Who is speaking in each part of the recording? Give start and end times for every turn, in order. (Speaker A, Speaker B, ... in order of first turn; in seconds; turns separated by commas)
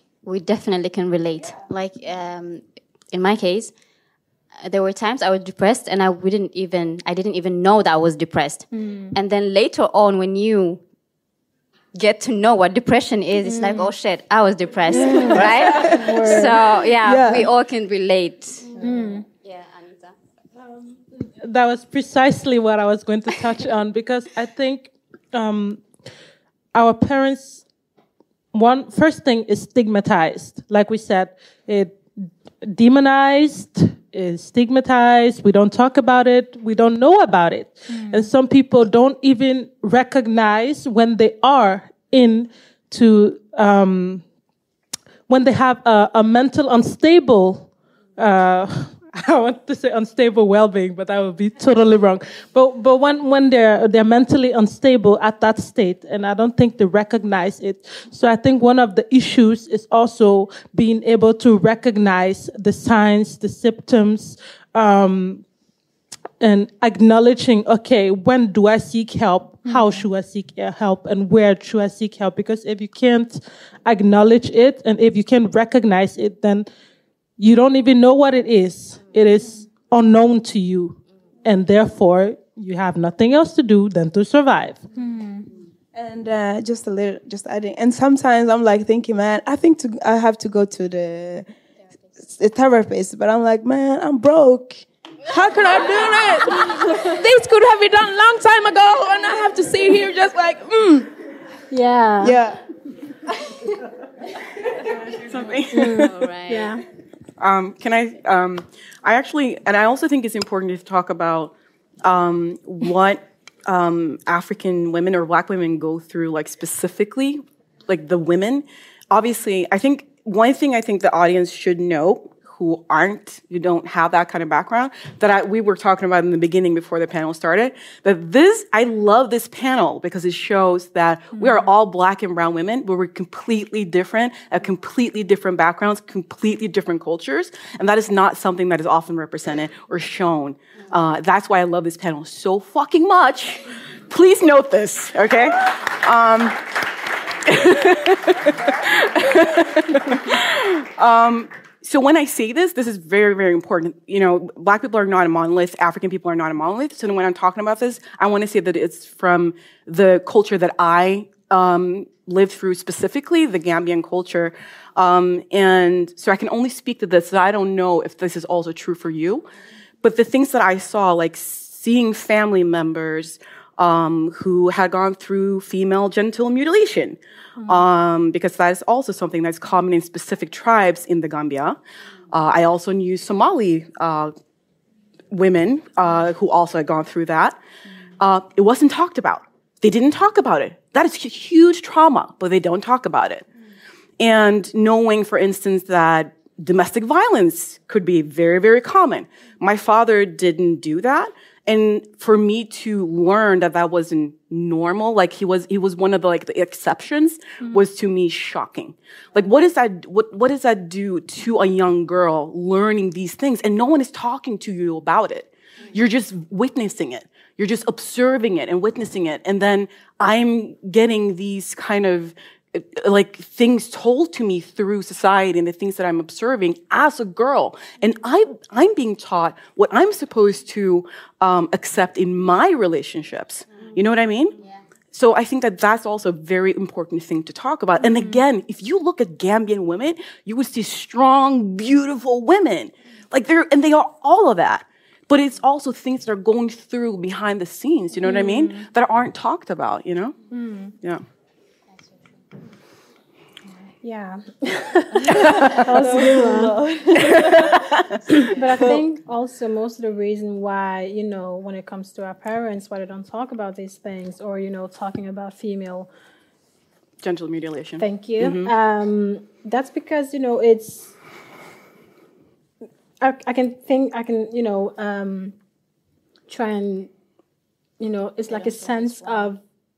Speaker A: 0.2-3.7, Speaker A: 4.6-10.8, Speaker B: 8.7-9.2, Speaker A: 11.9-18.9, Speaker B: 13.4-13.9, Speaker B: 14.9-16.6, Speaker C: 15.3-16.5, Speaker C: 17.0-17.5, Speaker B: 18.8-19.2, Speaker A: 19.4-20.1, Speaker D: 21.2-25.8, Speaker D: 26.7-27.6, Speaker D: 28.5-32.0, Speaker D: 32.6-44.2, Speaker B: 37.9-38.3, Speaker D: 45.3-65.4, Speaker D: 66.4-76.7, Speaker B: 69.7-70.0, Speaker D: 77.4-84.8, Speaker B: 85.0-85.5, Speaker C: 85.9-91.5, Speaker C: 92.3-97.3, Speaker B: 101.7-102.3, Speaker C: 102.2-102.6, Speaker E: 105.2-106.2, Speaker B: 105.7-106.8, Speaker A: 105.9-106.8, Speaker E: 107.4-146.6, Speaker E: 147.5-169.5, Speaker E: 170.0-181.8, Speaker B: 177.6-177.9, Speaker E: 182.3-184.3, Speaker E: 185.3-187.6, Speaker E: 188.2-193.4, Speaker E: 194.2-234.6, Speaker A: 234.5-234.8, Speaker E: 235.1-250.3, Speaker B: 248.2-248.8, Speaker B: 250.5-250.9, Speaker B: 254.0-256.8, Speaker C: 256.1-256.7, Speaker E: 257.2-257.6, Speaker E: 258.4-258.8, Speaker B: 258.5-266.1, Speaker E: 267.2-268.7, Speaker B: 268.0-271.1, Speaker B: 273.2-275.6, Speaker B: 276.5-277.1, Speaker B: 278.0-279.6